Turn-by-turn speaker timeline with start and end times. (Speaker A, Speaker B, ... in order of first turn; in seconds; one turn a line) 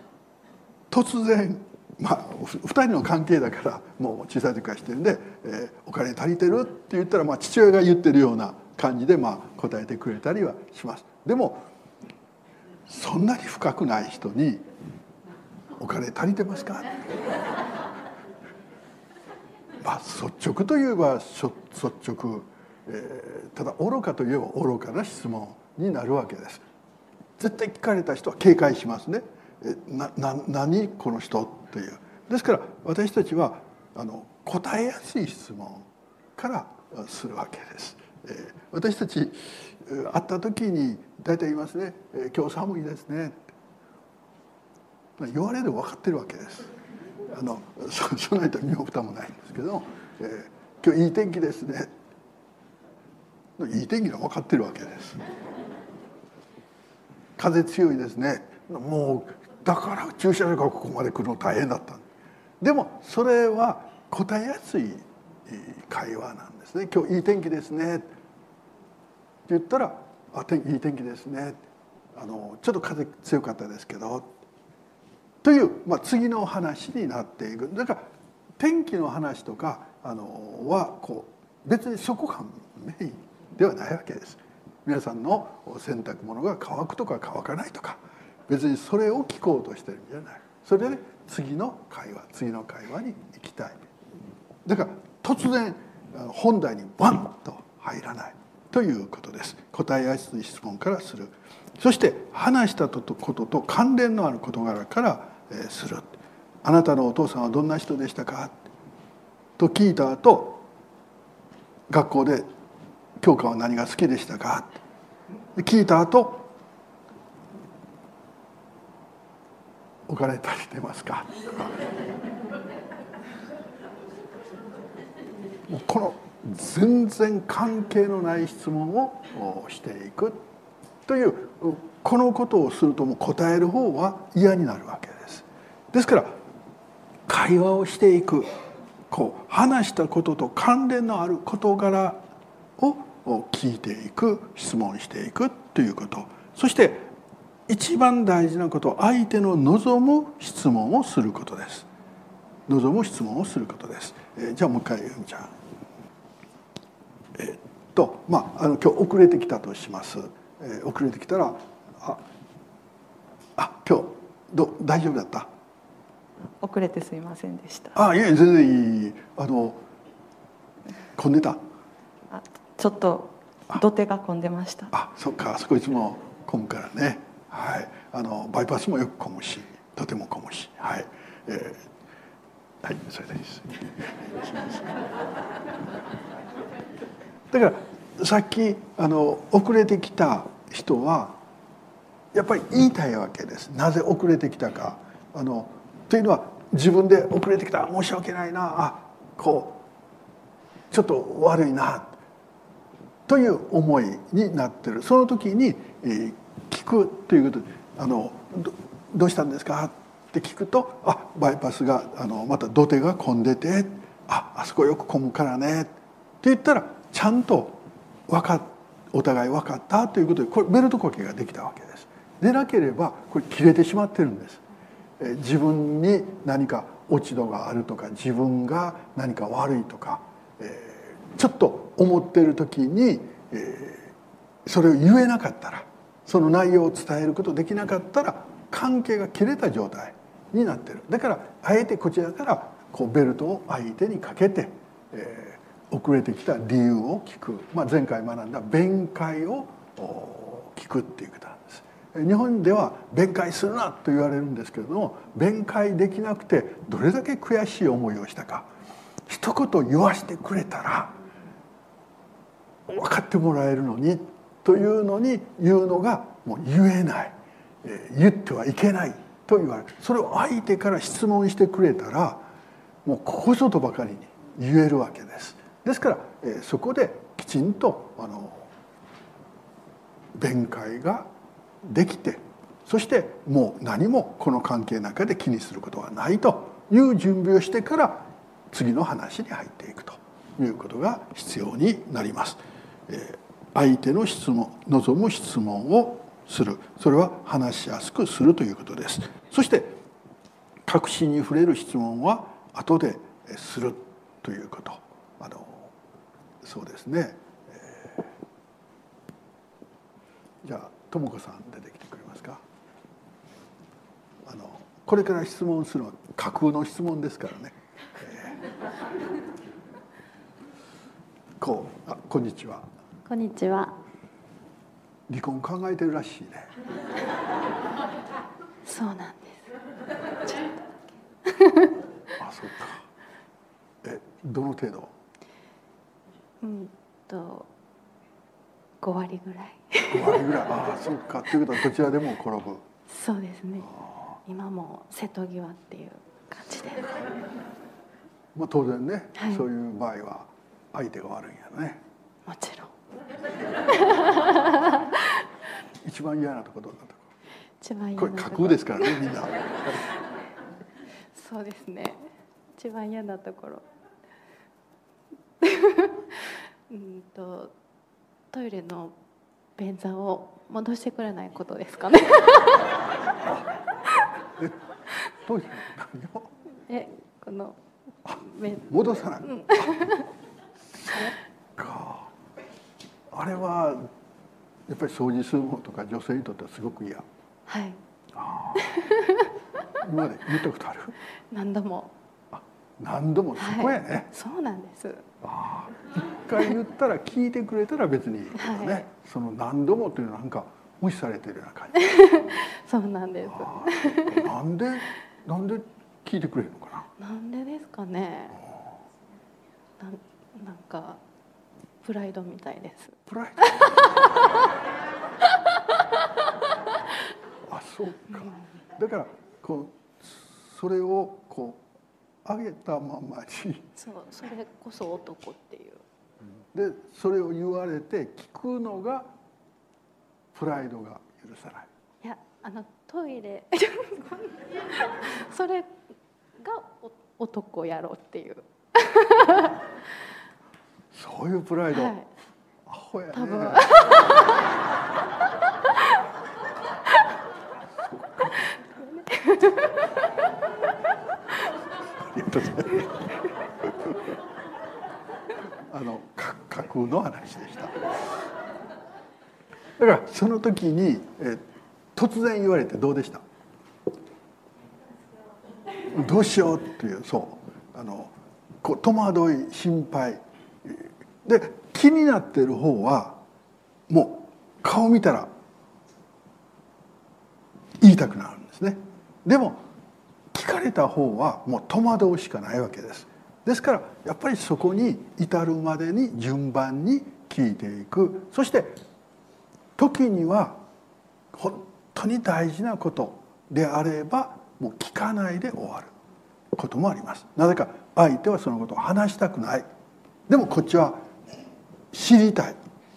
Speaker A: 0.9-11.7
Speaker A: 12.9-14.6
Speaker A: 15.8-17.1
Speaker A: 19.8-26.6
Speaker A: 27.4-43.5
Speaker A: 45.2-46.7
Speaker A: 47.3-51.9
Speaker A: 53.6-55.2
Speaker A: 57.4-62.1
Speaker A: 62.6-68.1
Speaker A: 69.5-71.6
Speaker A: 72.2-74.3
Speaker A: 75.4-78.1
Speaker A: 78.6-93.9
Speaker A: 94.7-108.7
Speaker A: 109.6-110.7
Speaker A: 111.9-112.5
Speaker A: 113.2-114.8
Speaker A: 115.6-116.5
Speaker A: 120.1-121.8
Speaker A: 125.7-130.4
Speaker A: 131.1-136.4
Speaker A: 137.3-138.5
Speaker A: 139.1-142.2
Speaker A: 142.8-147.1
Speaker A: 147.7-151.9
Speaker A: 152.7-155.5
Speaker A: 157.4-162.2
Speaker A: 163.6-165.5
Speaker B: 166.6-168.0
Speaker A: 167.9-169.8
Speaker A: 171.2-171.6
Speaker B: 172.3-174.9
Speaker A: 174.9-181.9
Speaker A: 182.8-184.9
Speaker A: 187.5-191.4
Speaker A: 192.3-199.8
Speaker A: 200.9-202.2
Speaker A: 203.3-224.6
Speaker A: 225.2-234.1
Speaker A: 234.7-258.7
Speaker A: 259.3-261.2
Speaker A: 262.9-272.5
Speaker A: 273.1-278.7
Speaker A: 280.4-281.3
Speaker A: 281.8-300.0
Speaker A: 300.9-305.9
Speaker A: 306.6-308.3
Speaker A: 310.6-312.6
Speaker A: 314.4-318.6
Speaker A: 321.6-322.9
Speaker C: 323.3-324.0
Speaker A: 325.3-326.7
Speaker C: 328.8-329.7
Speaker C: 330.4-330.8
Speaker C: 331.5-331.9
Speaker A: 332.4-333.1
Speaker A: 334.0-335.1
Speaker C: 336.6-337.7
Speaker C: 339.0-340.4
Speaker A: 340.1-342.8
Speaker C: 343.1-343.9
Speaker A: 343.9-344.4
Speaker C: 344.4-347.2
Speaker A: 348.6-352.0
Speaker C: 349.4-349.6
Speaker C: 352.5-352.9
Speaker C: 353.9-355.1
Speaker A: 356.0-357.3
Speaker C: 357.8-359.2
Speaker A: 358.2-360.0
Speaker C: 361.3-363.9
Speaker C: 365.6-367.7
Speaker C: 368.5-369.1
Speaker C: 369.8-373.0
Speaker A: 375.3-376.5
Speaker C: 376.9-380.3
Speaker A: 378.3-380.0
Speaker A: 381.0-382.3
Speaker A: 383.3-384.1
Speaker A: 384.9-387.3
Speaker C: 387.7-388.0
Speaker A: 388.4-389.0
Speaker C: 388.9-389.5
Speaker A: 390.0-391.2
Speaker C: 391.5-392.1
Speaker A: 392.6-394.3
Speaker C: 393.6-395.2
Speaker A: 395.4-402.2
Speaker C: 398.6-399.0
Speaker C: 402.0-404.5
Speaker A: 403.5-407.1
Speaker C: 407.2-408.6
Speaker C: 410.0-411.2
Speaker C: 412.0-413.2
Speaker A: 413.3-414.2
Speaker C: 413.7-414.1
Speaker A: 417.6-421.9
Speaker A: 422.4-423.9
Speaker C: 424.0-426.0
Speaker A: 426.7-429.3
Speaker A: 430.5-431.9
Speaker C: 432.2-436.0
Speaker C: 436.6-439.9
Speaker A: 441.1-442.2
Speaker C: 441.9-442.3
Speaker A: 442.9-443.9
Speaker C: 443.3-444.6
Speaker A: 448.0-448.7
Speaker C: 448.7-450.1
Speaker A: 452.1-454.2
Speaker A: 455.9-458.1
Speaker A: 460.0-461.6
Speaker A: 462.1-463.4
Speaker A: 466.1-473.4
Speaker A: 474.1-475.5
Speaker A: 478.0-479.8
Speaker A: 480.5-489.0
Speaker A: 490.0-490.8
Speaker A: 491.5-496.1
Speaker A: 496.7-499.9
Speaker A: 500.5-501.2
Speaker A: 502.1-502.8